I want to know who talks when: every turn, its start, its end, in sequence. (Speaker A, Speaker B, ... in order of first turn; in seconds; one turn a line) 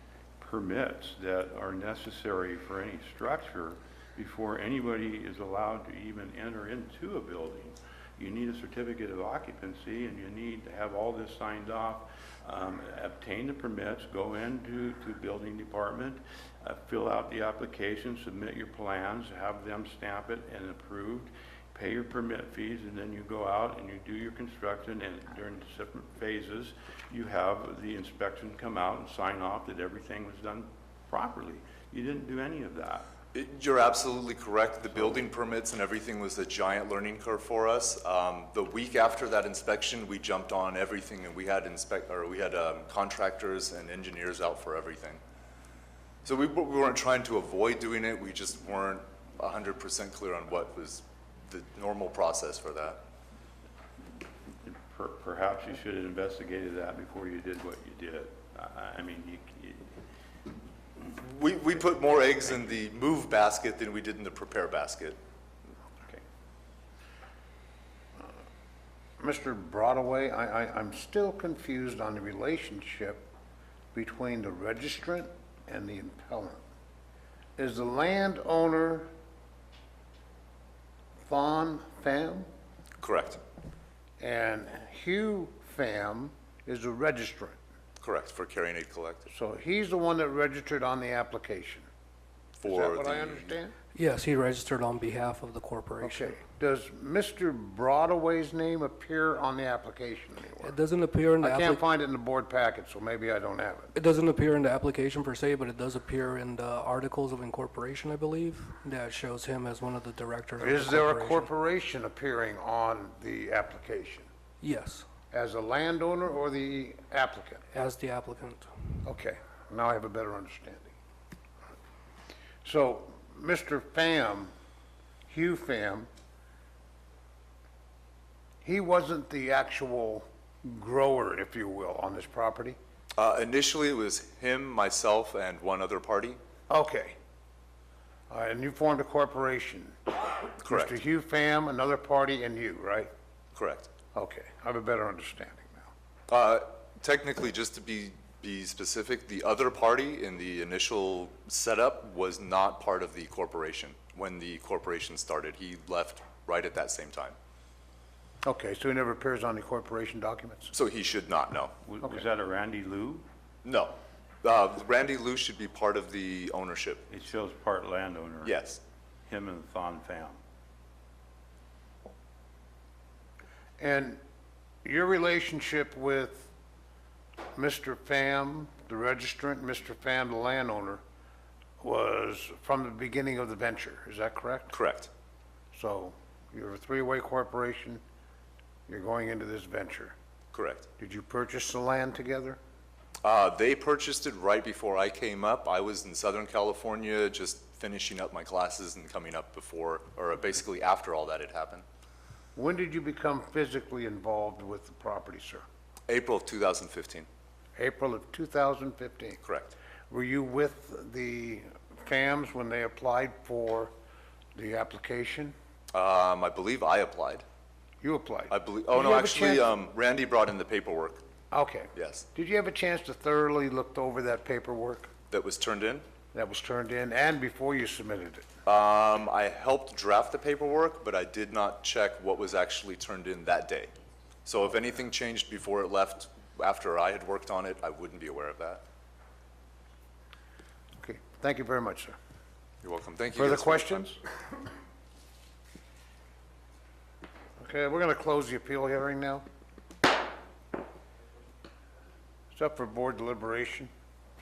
Speaker A: 0.4-33.1
Speaker B: 33.3-45.2
Speaker B: 46.2-53.0
Speaker A: 54.6-60.0
Speaker B: 61.1-65.2
Speaker C: 69.2-73.3
Speaker C: 73.9-76.6
Speaker C: 77.6-79.1
Speaker C: 81.2-82.5
Speaker B: 83.0-83.4
Speaker C: 84.2-87.6
Speaker B: 88.0-89.3
Speaker C: 89.3-91.9
Speaker B: 92.6-93.5
Speaker C: 92.7-93.7
Speaker D: 94.0-96.4
Speaker C: 96.0-100.8
Speaker D: 100.6-101.8
Speaker C: 101.4-103.9
Speaker D: 103.9-111.5
Speaker C: 110.6-114.3
Speaker D: 114.6-115.0
Speaker C: 115.3-117.6
Speaker D: 117.7-119.0
Speaker C: 119.0-120.9
Speaker C: 122.6-124.5
Speaker C: 125.3-126.1
Speaker C: 128.6-132.8
Speaker B: 133.2-136.4
Speaker C: 136.7-137.2
Speaker C: 138.3-143.1
Speaker B: 140.6-140.9
Speaker B: 143.6-143.9
Speaker C: 144.1-145.9
Speaker B: 146.3-157.4
Speaker C: 158.4-160.7
Speaker B: 160.7-161.8
Speaker A: 161.9-163.2
Speaker B: 163.7-167.1
Speaker A: 167.1-168.6
Speaker B: 168.4-168.8
Speaker A: 169.3-170.4
Speaker C: 173.8-174.2
Speaker C: 174.8-176.5
Speaker C: 177.6-181.0
Speaker C: 181.8-184.8
Speaker B: 184.7-185.1
Speaker C: 185.7-188.0
Speaker C: 188.9-190.2
Speaker B: 190.5-190.9
Speaker C: 191.0-192.6
Speaker B: 193.2-201.8
Speaker C: 202.6-205.7
Speaker B: 206.1-207.3
Speaker C: 207.8-209.4
Speaker B: 209.4-209.7
Speaker C: 210.1-213.9
Speaker C: 214.6-215.5
Speaker B: 215.9-217.4
Speaker C: 218.0-219.7
Speaker B: 218.5-221.2
Speaker C: 221.5-225.1
Speaker B: 221.9-222.2
Speaker B: 225.3-226.1
Speaker C: 226.3-228.5
Speaker B: 228.7-233.9
Speaker B: 234.4-238.8
Speaker C: 241.0-242.2
Speaker B: 242.8-244.1
Speaker C: 243.3-244.2
Speaker C: 247.6-249.4
Speaker C: 252.5-253.9